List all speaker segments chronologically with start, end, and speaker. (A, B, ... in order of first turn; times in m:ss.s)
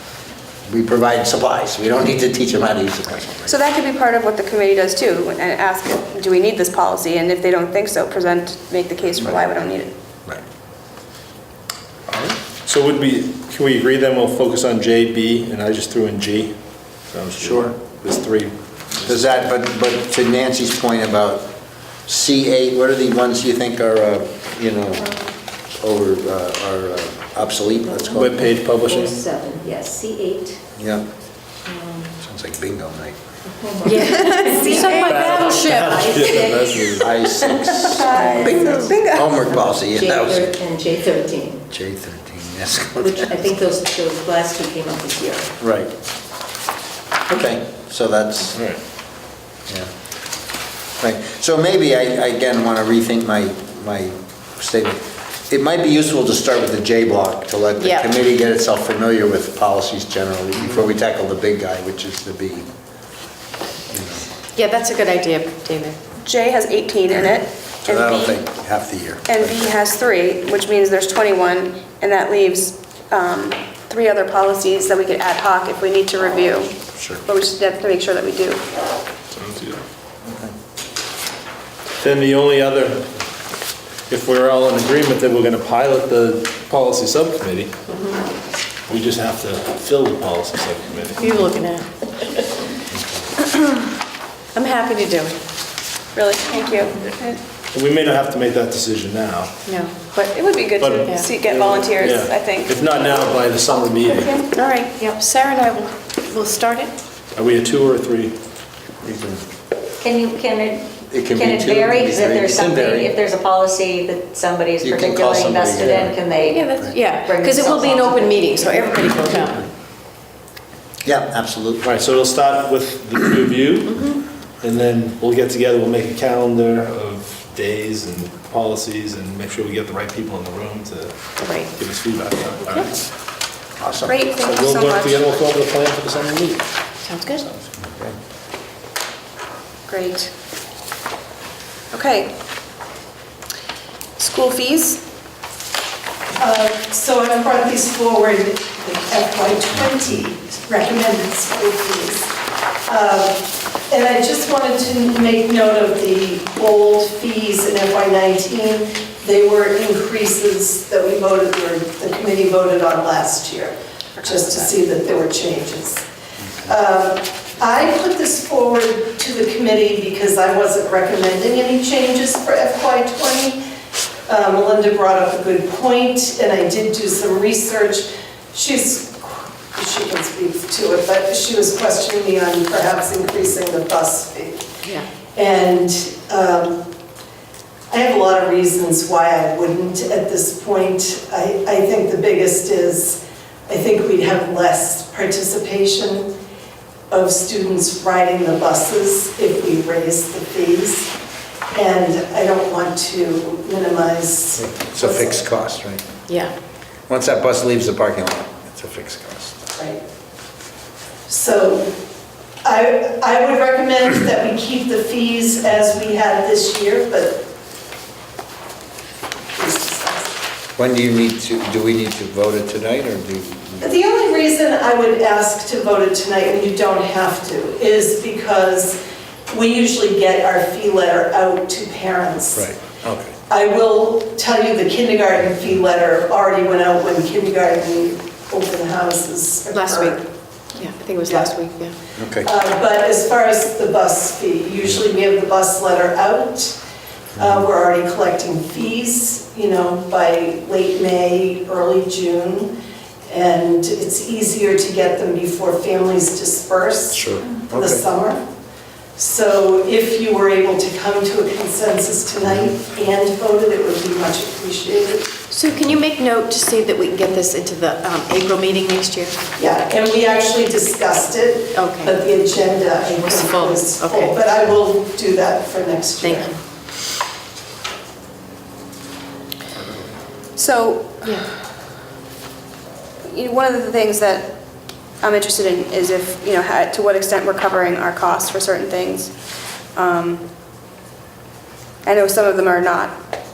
0:00.7-0:03.5 A
0:03.5-0:09.9 B
0:12.1-0:19.2 C
0:17.4-0:17.7 A
0:19.0-0:21.5 A
0:22.0-0:25.1 A
0:25.8-0:28.4 A
0:27.9-0:30.6 D
0:28.2-0:29.2 C
0:30.8-0:31.0 A
0:31.6-0:32.1 D
0:32.2-0:33.2 A
0:33.4-0:41.7 D
0:33.8-0:36.4 E
0:34.9-0:37.1 C
0:37.0-0:40.5 A
0:37.8-0:39.3 B
0:41.7-0:43.4 A
0:43.0-0:45.5 D
0:45.6-0:45.9 A
0:47.3-0:48.6 A
0:48.5-0:48.8 C
0:51.0-1:02.7 A
0:57.8-0:58.1 E
1:03.9-1:04.2 A
1:04.6-1:06.0 E
1:06.2-1:08.4 B
1:07.8-1:09.7 A
1:09.3-1:18.6 B
1:17.0-1:17.2 A
1:19.4-1:19.8 C
1:20.3-1:20.5 A
1:22.0-1:23.1 C
1:24.1-1:27.7 C
1:28.9-1:31.5 C
1:31.2-1:32.5 E
1:34.5-1:35.4 E
1:36.1-1:37.4 B
1:37.7-1:39.6 C
1:39.6-1:40.1 E
1:40.1-1:44.5 B
1:40.8-1:44.5 C
1:41.0-1:41.3 E
1:44.5-1:46.9 E
1:47.3-1:48.4 C
1:49.0-1:49.4 A
1:50.0-1:59.5 F
1:51.1-1:53.2 A
1:54.8-1:57.0 A
1:56.4-1:59.7 E
2:01.0-2:01.9 A
2:01.8-2:13.0 C
2:03.9-2:04.2 E
2:11.4-2:11.7 E
2:13.8-2:14.2 A
2:14.1-2:15.3 B
2:14.4-2:16.7 C
2:17.0-2:17.4 E
2:17.3-2:17.7 C
2:17.8-2:18.1 A
2:19.9-2:20.3 B
2:21.9-2:22.3 B
2:24.2-2:25.0 B
2:26.4-2:32.3 G
2:32.8-2:46.0 G
2:44.3-2:44.5 E
2:46.6-2:53.6 G
2:54.3-3:04.7 G
3:05.3-3:06.8 G
3:07.9-3:16.3 G
3:17.1-3:21.1 G
3:21.7-3:25.4 G
3:24.6-3:26.1 A
3:26.3-3:26.5 E
3:27.1-3:29.6 A
3:29.8-3:30.0 G
3:31.3-3:31.9 G
3:32.6-3:37.4 G
3:39.6-3:40.3 G
3:40.8-3:43.9 A
3:43.8-3:52.6 G
3:52.5-3:53.3 A
3:53.5-4:00.2 G
3:59.7-4:00.2 E
4:00.7-4:01.9 E
4:01.2-4:01.5 G
4:02.2-4:02.5 A
4:02.4-4:06.8 G
4:07.4-4:12.7 G
4:13.3-4:18.4 G
4:17.1-4:18.0 A
4:19.2-4:25.4 G
4:22.4-4:22.7 A
4:25.5-4:29.4 E
4:29.6-4:36.5 G
4:31.7-4:32.2 E
4:33.1-4:34.5 E
4:36.2-4:36.5 E
4:40.6-4:41.4 B
4:43.3-4:44.5 B
4:45.2-4:49.3 B
4:49.9-4:50.4 B
4:52.0-4:53.2 B